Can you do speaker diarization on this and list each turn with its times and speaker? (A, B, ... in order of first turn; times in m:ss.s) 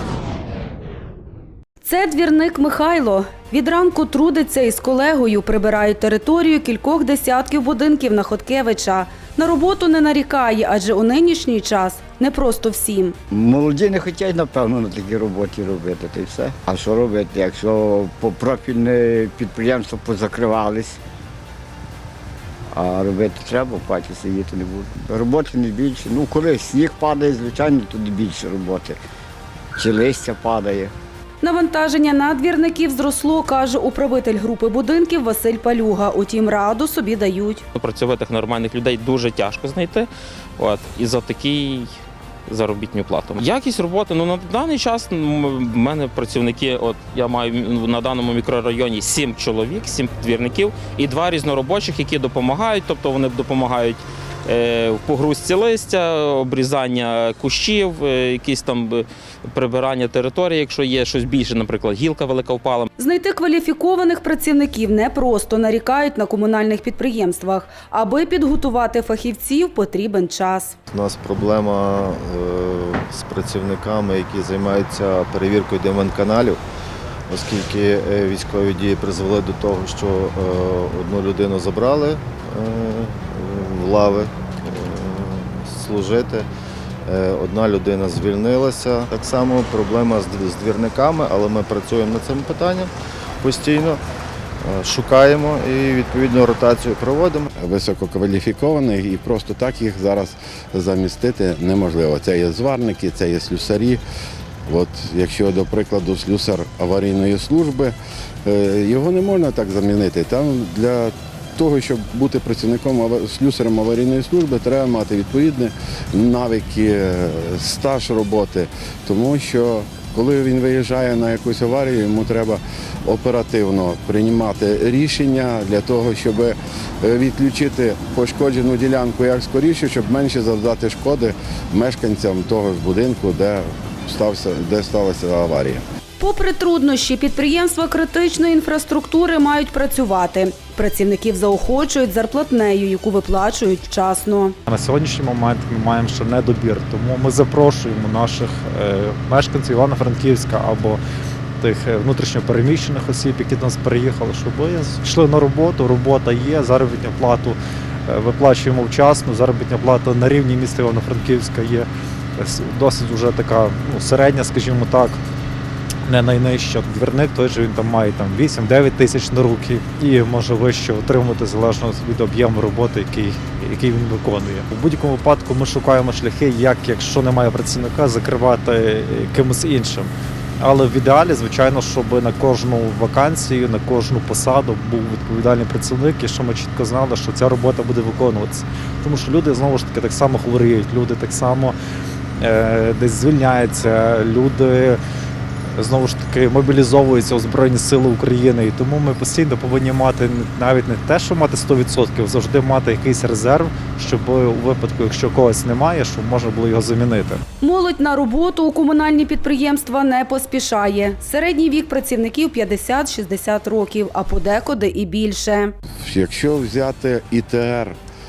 0:01.8-0:13.2 A
0:13.3-0:20.9 B
0:22.8-0:28.9 B
0:29.8-0:30.9 B
0:31.4-0:37.6 A
0:37.8-0:42.0 C
0:42.5-1:02.9 C
1:03.0-1:10.8 A
1:10.9-1:16.6 D
1:17.3-1:26.5 D
1:27.1-1:34.0 D
1:34.6-1:37.4 D
1:37.6-1:44.0 E
1:44.7-2:15.8 E
2:16.2-2:24.6 A
2:24.7-2:31.0 F
2:31.6-2:45.2 F
2:46.0-3:11.8 F
3:12.4-3:15.0 F
3:15.8-3:27.4 F
3:27.6-3:35.7 A
3:36.0-3:38.0 E